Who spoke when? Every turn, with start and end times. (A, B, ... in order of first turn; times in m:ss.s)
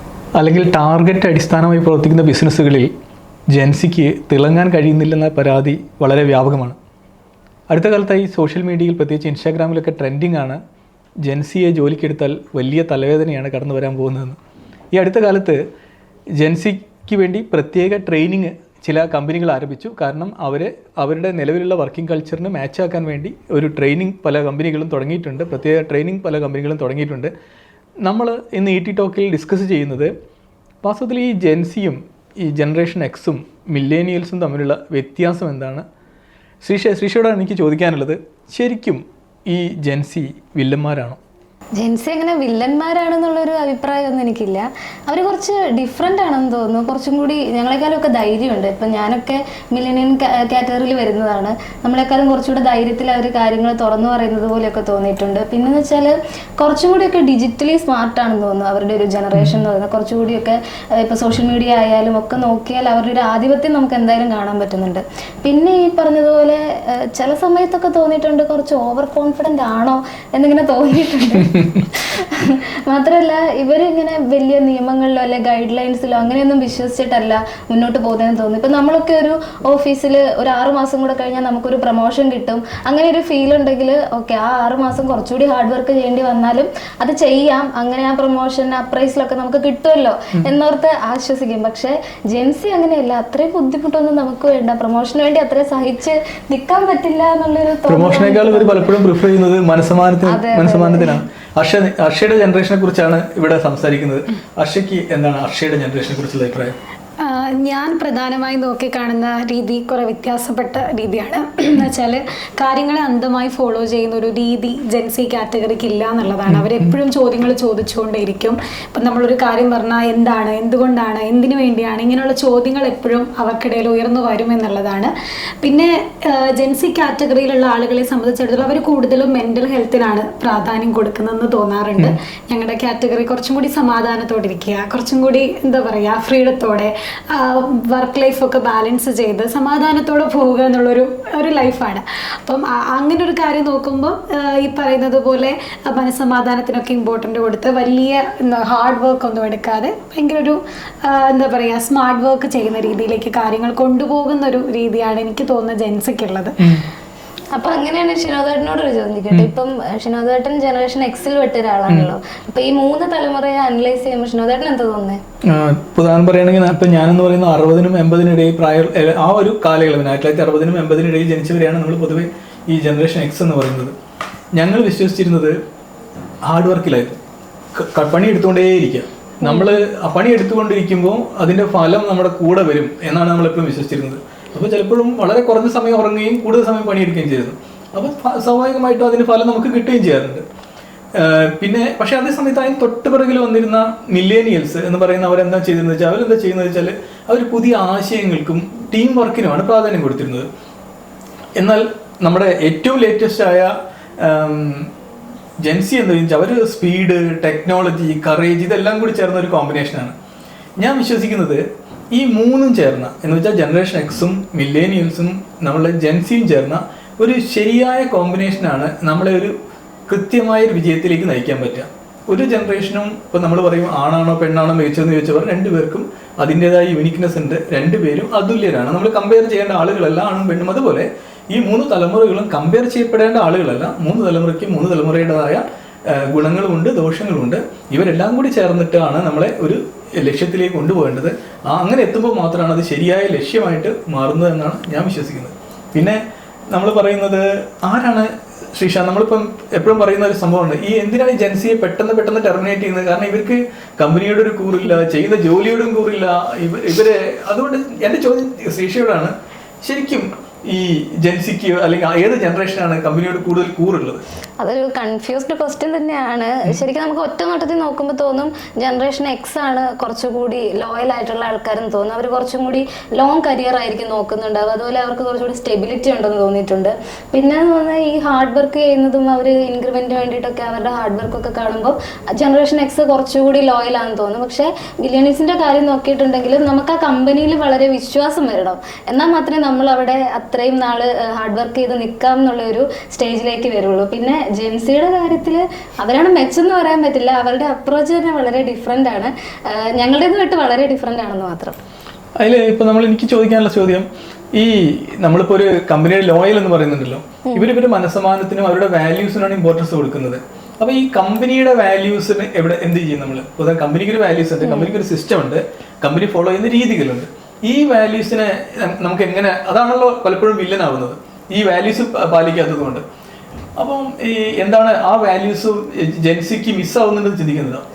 0:00.4-0:02.9 A
0:03.5-0:06.8 A
0:07.7-0:10.6 A
0:11.2-0:14.4 A
0:14.9-0:15.6 A
0:16.4-0:27.3 A
0:28.0-0:30.1 A
0:30.8-0:35.8 A
0:36.6-0:41.2 A
0:41.8-1:39.0 B
0:59.3-0:59.6 A
1:37.9-1:46.8 A
1:40.3-1:41.2 B
1:47.2-2:05.1 C
2:05.6-2:36.6 C
2:36.6-2:36.8 A
2:37.5-2:45.2 B
2:45.5-2:53.9 A
2:54.5-2:55.6 A
2:56.4-2:57.2 A
2:57.8-3:10.4 A
2:59.4-2:59.8 B
3:11.2-3:20.5 A
3:21.6-3:24.9 A
3:25.6-3:30.2 A
3:30.8-3:39.5 A
3:40.1-4:06.2 A
4:06.7-4:24.2 A
4:24.6-5:01.8 B
5:02.4-5:23.0 A
5:14.6-5:14.9 B
5:23.8-5:27.8 A